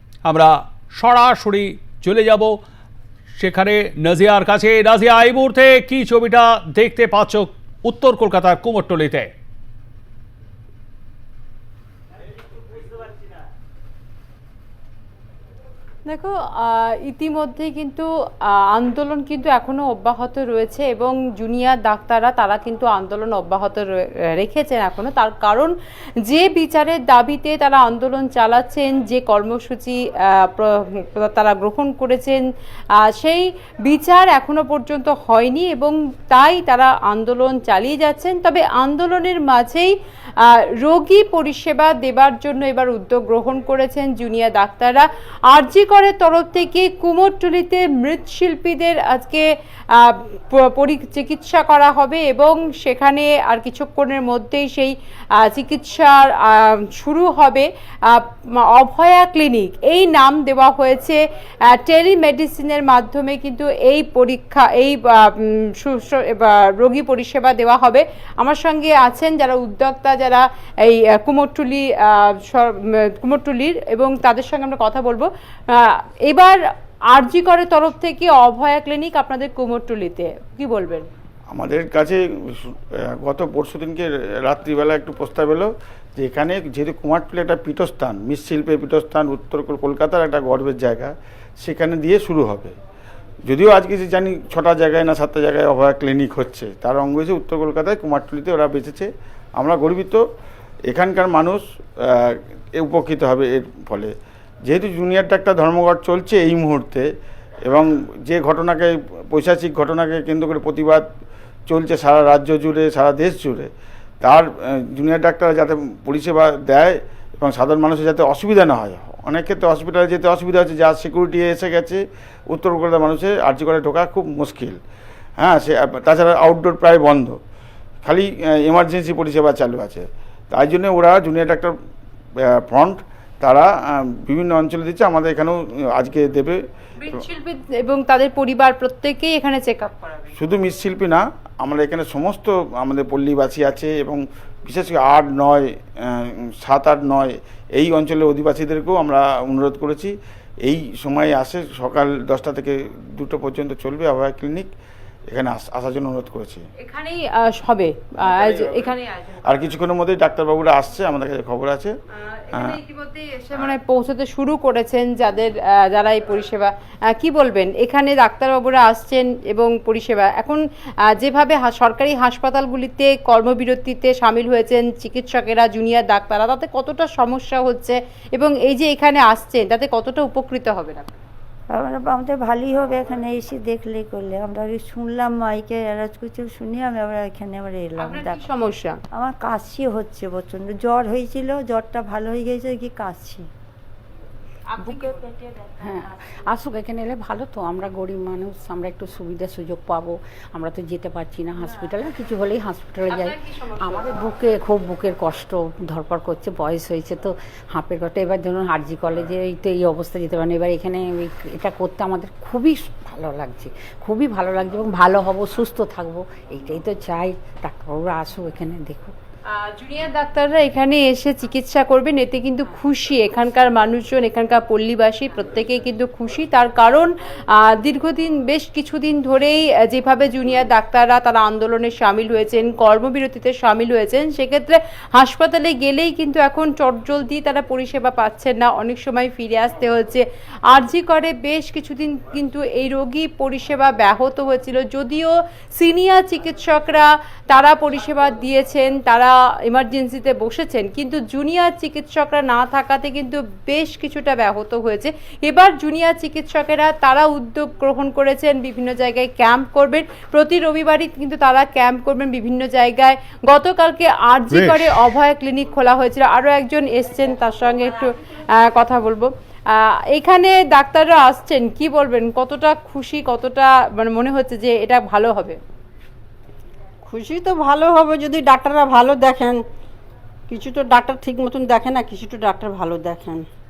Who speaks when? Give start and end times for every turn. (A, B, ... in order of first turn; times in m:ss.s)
0:00.2-0:02.6 A
0:03.4-0:09.3 A
0:16.1-0:25.7 B
0:26.2-0:32.4 B
0:33.0-1:16.6 B
1:17.1-1:21.1 B
1:21.5-1:32.8 C
1:33.5-1:40.2 C
1:40.9-1:44.1 C
1:44.7-1:47.1 C
1:47.6-1:51.1 C
1:51.7-1:53.7 C
1:54.2-2:04.8 C
2:05.4-2:07.4 C
2:08.0-2:11.8 C
2:12.4-2:16.6 C
2:17.0-2:20.3 B
2:20.4-2:34.7 C
2:35.3-2:36.7 C
2:36.8-2:39.4 B
2:38.2-2:38.9 C
2:39.4-2:41.9 C
2:42.2-2:50.6 B
2:42.5-2:42.8 C
2:51.1-3:01.1 B
3:01.7-3:08.4 D
3:08.0-3:09.0 B
3:09.1-3:13.5 D
3:14.7-3:15.7 B
3:15.8-3:39.2 E
3:23.1-3:24.2 B
3:39.5-4:35.6 B
4:24.5-4:25.2 A
4:37.1-4:39.6 F
4:40.5-4:43.5 F